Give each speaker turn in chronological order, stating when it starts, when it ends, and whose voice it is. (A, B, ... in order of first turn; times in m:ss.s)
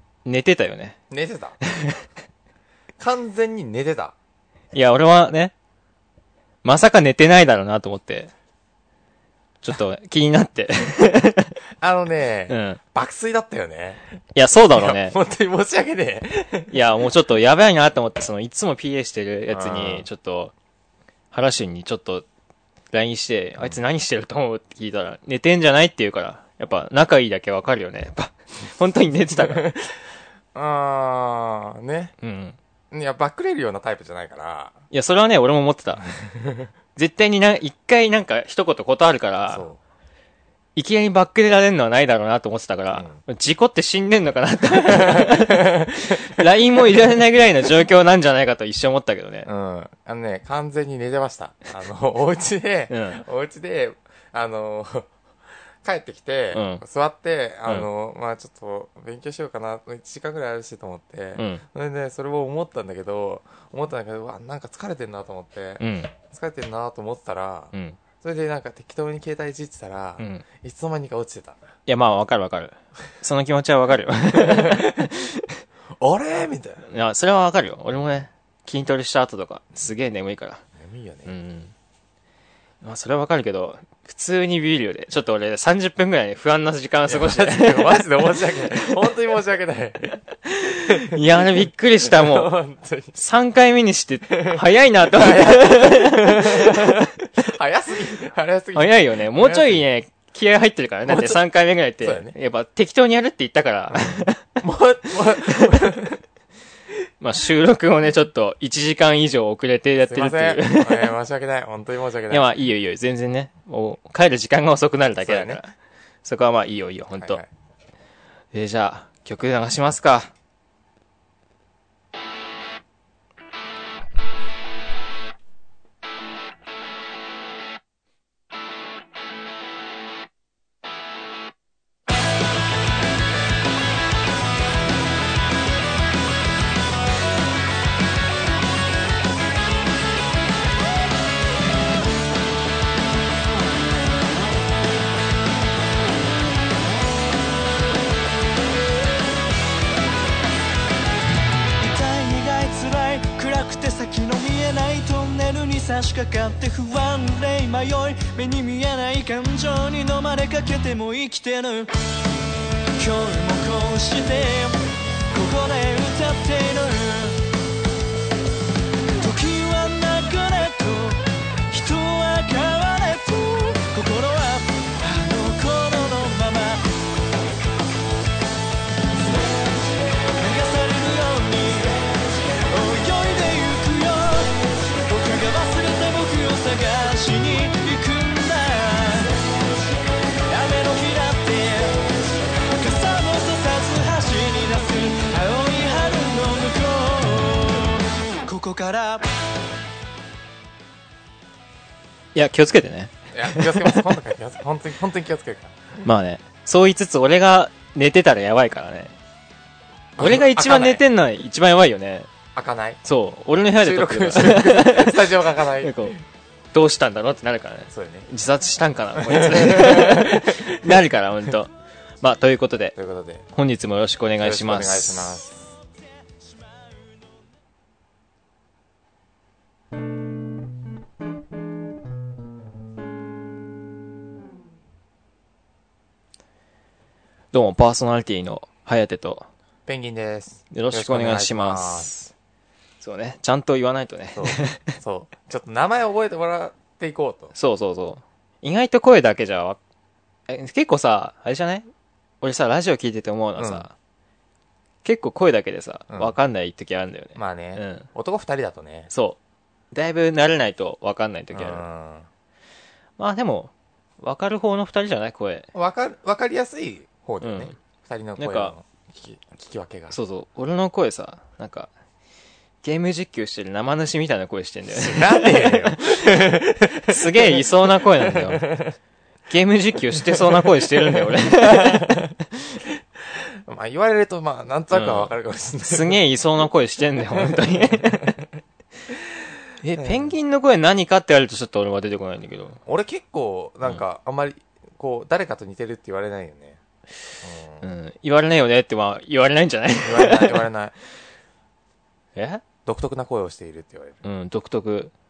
0:00.2-0:01.0 A
0:01.1-0:01.6 B
0:01.7-0:02.0 A
0:03.0-0:04.1 B
0:04.7-0:05.5 A
0:06.6-0:08.3 A
0:09.6-0:11.6 A
0:11.8-0:14.0 B
0:12.5-0:12.8 A
0:14.3-0:15.2 A
0:14.7-0:16.7 B
0:16.7-0:20.5 A
0:19.5-0:20.1 B
0:21.3-0:22.2 A
0:22.9-0:29.7 A
0:29.4-0:30.0 B
0:30.5-0:32.1 B
0:32.2-0:32.6 A
0:32.9-0:34.8 B
0:34.9-0:36.1 A
0:36.1-0:36.7 B
0:37.0-0:39.7 A
0:39.5-0:39.8 B
0:40.8-0:49.5 A
0:42.9-0:43.2 B
0:44.7-0:46.4 B
0:49.4-0:55.1 B
0:52.9-0:53.2 A
0:55.8-1:11.7 B
0:56.5-0:56.8 A
1:01.4-1:01.6 A
1:05.8-1:06.1 A
1:07.7-1:08.0 A
1:10.2-1:10.4 A
1:11.9-1:15.5 A
1:14.3-1:15.1 B
1:16.0-1:16.9 B
1:16.9-1:20.6 A
1:20.8-1:21.3 B
1:21.3-1:21.7 A
1:22.8-1:29.1 A
1:27.1-1:30.2 B
1:30.4-1:32.6 A
1:30.9-1:33.2 B
1:33.1-1:37.3 A
1:34.3-1:39.8 B
1:38.8-1:44.5 A
1:41.0-1:41.4 B
1:42.0-1:42.3 B
1:43.9-1:46.2 B
1:45.4-1:45.9 A
1:47.2-1:51.1 A
1:50.1-1:52.5 B
1:52.3-1:57.4 A
1:55.2-1:55.6 B
1:57.1-1:57.5 B
1:58.5-2:00.3 A
2:31.8-2:41.9 C
2:43.0-2:47.4 C
2:49.2-2:56.9 C
3:00.4-3:09.4 C
3:10.5-3:12.1 C
3:12.7-3:19.3 C
3:22.3-3:24.1 A
3:23.3-3:26.0 B
3:26.0-3:29.1 A
3:30.2-3:31.0 B
3:30.2-3:32.3 A
3:32.6-3:33.0 B
3:33.0-3:36.2 A
3:33.8-3:36.2 B
3:36.7-3:41.7 A
3:37.9-3:38.3 B
3:39.2-3:40.9 B
3:42.2-3:43.0 A
3:43.0-3:43.5 B
3:43.5-3:45.5 A
3:44.4-3:45.8 B
3:57.5-3:59.5 A
3:59.8-4:02.2 B
4:00.7-4:02.3 A
4:03.0-4:05.0 A
4:04.3-4:07.5 B
4:07.6-4:09.8 A
4:10.5-4:11.9 A
4:12.4-4:13.9 A
4:13.6-4:13.9 B
4:15.0-4:18.1 A
4:16.1-4:16.4 B
4:17.3-4:19.1 B
4:19.1-4:19.4 A
4:19.9-4:21.8 A
4:21.5-4:22.3 B
4:23.2-4:25.7 A
4:25.7-4:30.2 B
4:27.4-4:27.7 A
4:28.4-4:28.7 A
4:30.1-4:31.9 A
4:32.8-4:38.8 A
4:34.9-4:39.0 B
4:39.5-4:42.2 A
4:40.1-4:42.4 B
4:43.3-4:46.2 B
4:44.9-4:45.3 A
4:45.8-4:48.4 A
4:47.4-4:48.3 B
4:49.8-4:52.8 A
4:50.0-4:50.3 B
4:52.8-4:56.8 B
4:57.4-4:57.8 B
4:57.8-5:00.6 A
5:00.0-5:00.9 B
5:02.4-5:02.6 A
5:02.8-5:04.2 B
5:04.2-5:05.1 A